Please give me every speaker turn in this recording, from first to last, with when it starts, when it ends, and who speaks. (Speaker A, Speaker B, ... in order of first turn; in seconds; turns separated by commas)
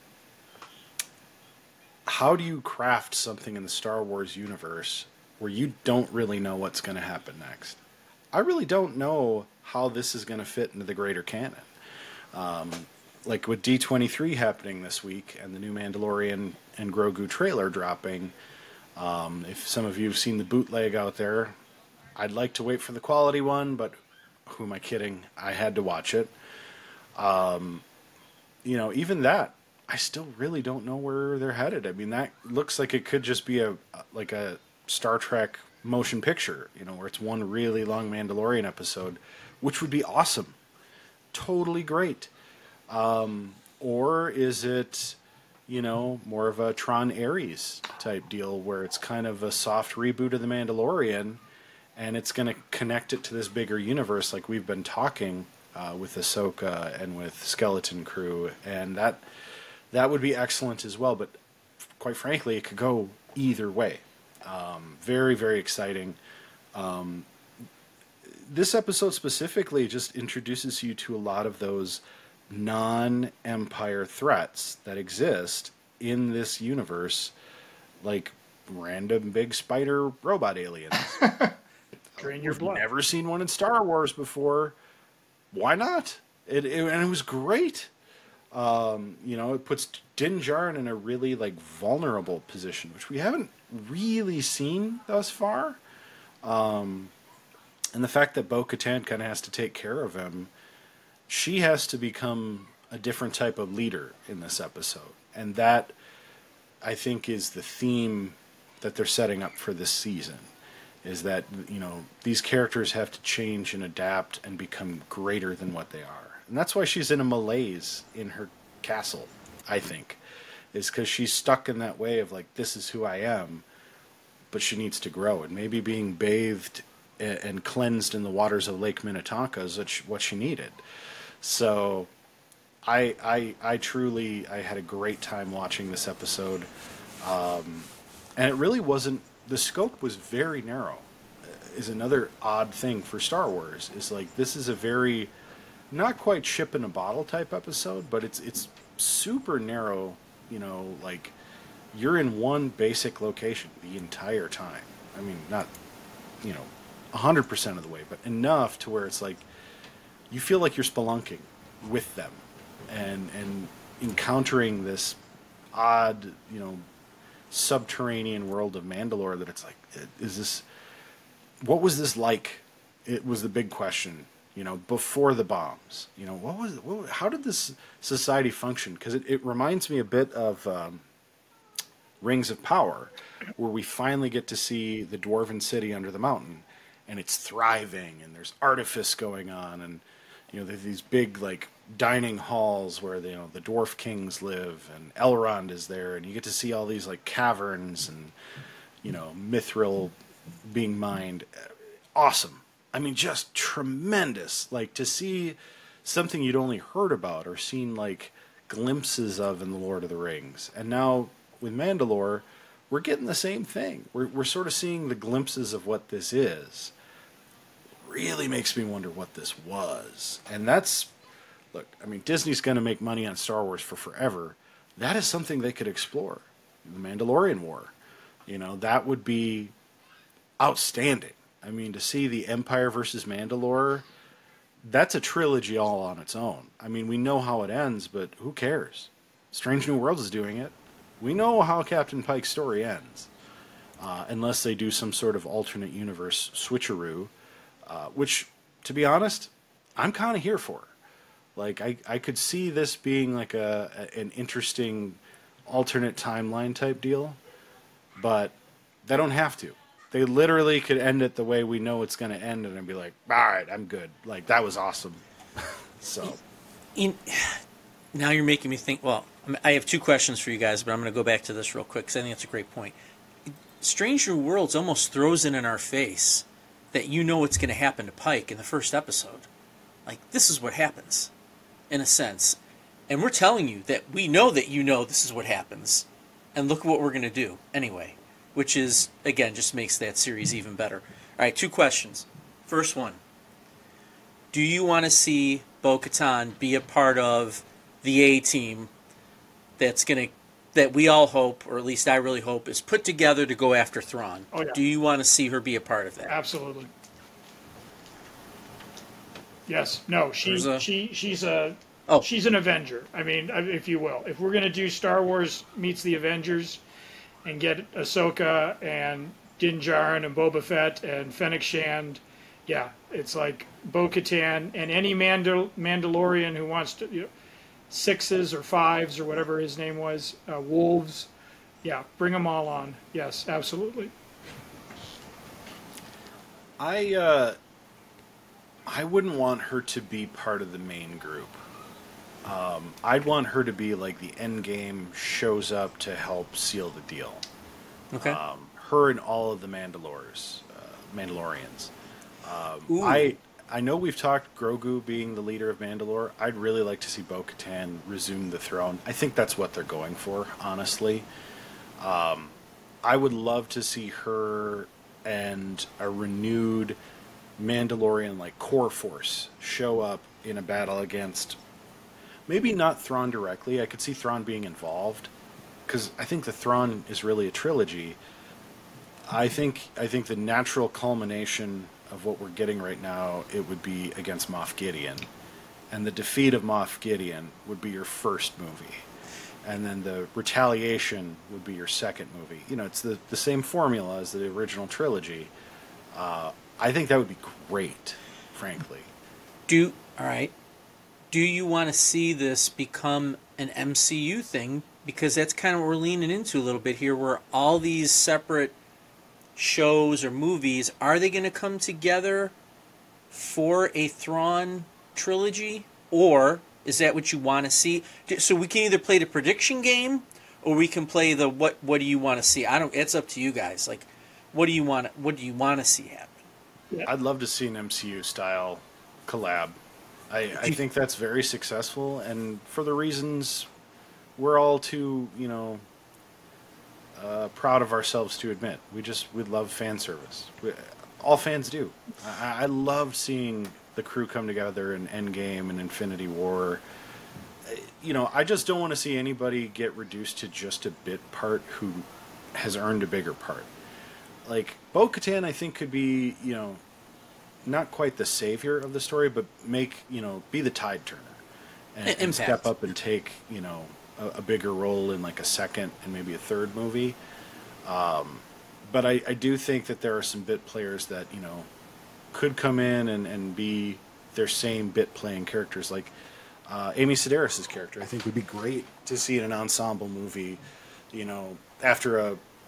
Speaker A: 2.0-7.8, Speaker A: 8.3-11.7, Speaker A: 12.3-18.3, Speaker A: 18.9-21.5, Speaker A: 22.1-23.9, Speaker A: 24.4-26.3, Speaker A: 27.2-27.8, Speaker A: 28.6-40.6, Speaker A: 41.3-42.3, Speaker A: 42.9-51.4, Speaker A: 52.0-59.2, Speaker A: 59.9-61.3, Speaker A: 62.0-66.2, Speaker A: 66.7-67.3, Speaker A: 68.2-77.3, Speaker A: 78.0-81.2, Speaker B: 81.2-81.5, Speaker A: 82.2-84.7, Speaker B: 82.2-82.8, Speaker A: 85.5-87.9, Speaker A: 88.5-95.8, Speaker A: 96.4-97.1, Speaker A: 97.9-100.5, Speaker A: 101.3-105.9, Speaker A: 106.8-110.5, Speaker A: 111.0-120.2, Speaker A: 120.7-123.6, Speaker A: 124.5-130.8, Speaker A: 131.4-132.1, Speaker A: 132.8-136.7, Speaker A: 137.2-145.3, Speaker A: 145.9-151.3, Speaker A: 151.9-155.7, Speaker A: 156.4-159.4, Speaker A: 160.3-165.2, Speaker A: 165.7-166.8, Speaker A: 167.5-170.6, Speaker A: 171.6-181.0, Speaker A: 182.2-198.3, Speaker A: 199.0-200.1, Speaker A: 200.7-216.9, Speaker A: 218.0-221.1, Speaker A: 221.7-227.9, Speaker A: 228.5-229.7, Speaker A: 230.6-234.1, Speaker A: 234.8-243.3, Speaker A: 244.0-247.3, Speaker A: 247.9-250.9, Speaker A: 251.6-257.4, Speaker A: 258.2-266.4, Speaker C: 266.9-267.6, Speaker C: 268.1-272.9, Speaker C: 273.8-279.5, Speaker C: 280.1-281.3, Speaker C: 281.9-282.6, Speaker C: 283.1-293.2, Speaker C: 294.5-298.9, Speaker C: 299.8-306.3, Speaker B: 304.5-304.8, Speaker B: 306.2-306.9, Speaker B: 309.7-316.8, Speaker C: 310.4-310.9, Speaker B: 317.4-327.3, Speaker B: 327.9-331.3, Speaker B: 331.8-334.1, Speaker A: 336.8-337.6, Speaker A: 338.9-341.6, Speaker A: 342.4-347.4, Speaker C: 348.1-348.4, Speaker A: 348.2-351.9, Speaker A: 352.4-361.2, Speaker C: 352.9-353.3, Speaker A: 362.0-366.9, Speaker A: 367.6-371.6, Speaker A: 372.5-375.3, Speaker A: 375.9-378.2, Speaker A: 379.3-385.3, Speaker A: 385.9-389.0, Speaker A: 389.6-395.5, Speaker A: 396.1-399.1, Speaker C: 399.7-400.5, Speaker C: 401.3-408.7, Speaker C: 409.6-412.5, Speaker C: 413.3-426.4, Speaker A: 427.1-429.8, Speaker A: 430.3-433.7, Speaker A: 434.4-435.8, Speaker A: 437.1-446.8, Speaker A: 447.6-453.7, Speaker A: 454.4-456.8, Speaker A: 457.6-461.4, Speaker A: 461.9-467.2, Speaker C: 462.1-462.7, Speaker A: 467.8-471.7, Speaker A: 472.3-476.1, Speaker A: 476.7-480.6, Speaker A: 481.1-482.4